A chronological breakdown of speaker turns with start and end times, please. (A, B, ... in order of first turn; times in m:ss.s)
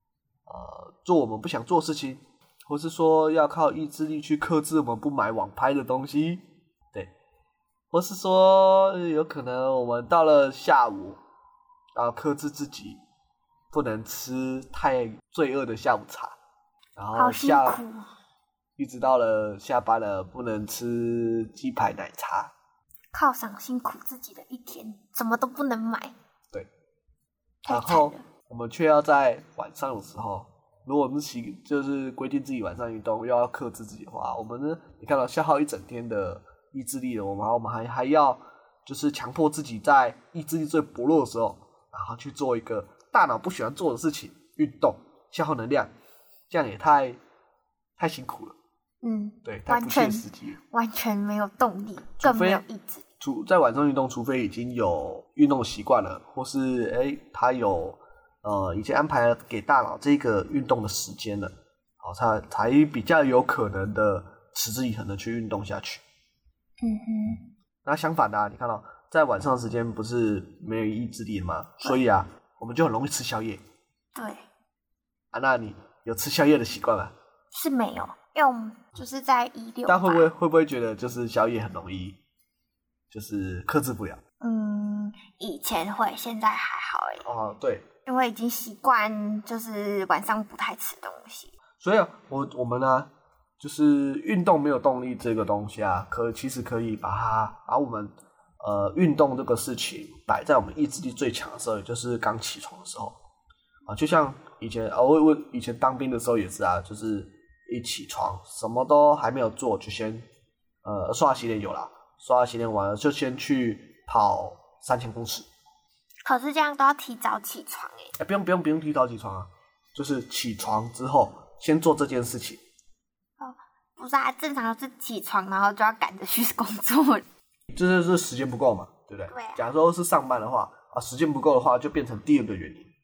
0:00.5-0:07.1 A
0:07.9-0:11.2 A
0:11.9-0:13.0 A
0:13.7-0:16.3 A
0:17.0-0:17.8 A
0:17.1-0:18.1 B
0:18.8-0:22.5 A
0:23.1-0:26.1 B
0:27.6-0:28.2 B
0:27.7-0:45.9 A
0:46.5-0:47.2 A
0:48.0-0:48.6 A
0:49.0-0:53.0 B
0:49.4-0:50.6 A
0:52.2-0:52.6 A
0:53.2-1:06.0 A
1:06.8-1:07.4 B
1:07.8-1:13.6 A
1:14.1-1:14.4 B
1:15.3-1:17.1 A
1:17.5-1:20.3 B
1:19.8-1:22.2 A
1:23.1-1:24.2 A
1:24.4-1:27.2 B
1:27.2-1:27.9 A
1:28.0-1:31.5 B
1:31.8-1:43.2 A
1:43.9-1:50.2 A
1:50.8-1:55.5 A
1:56.2-1:58.1 B
1:58.2-2:02.6 A
2:03.4-2:07.2 B
2:07.7-2:12.9 A
2:09.3-2:09.6 B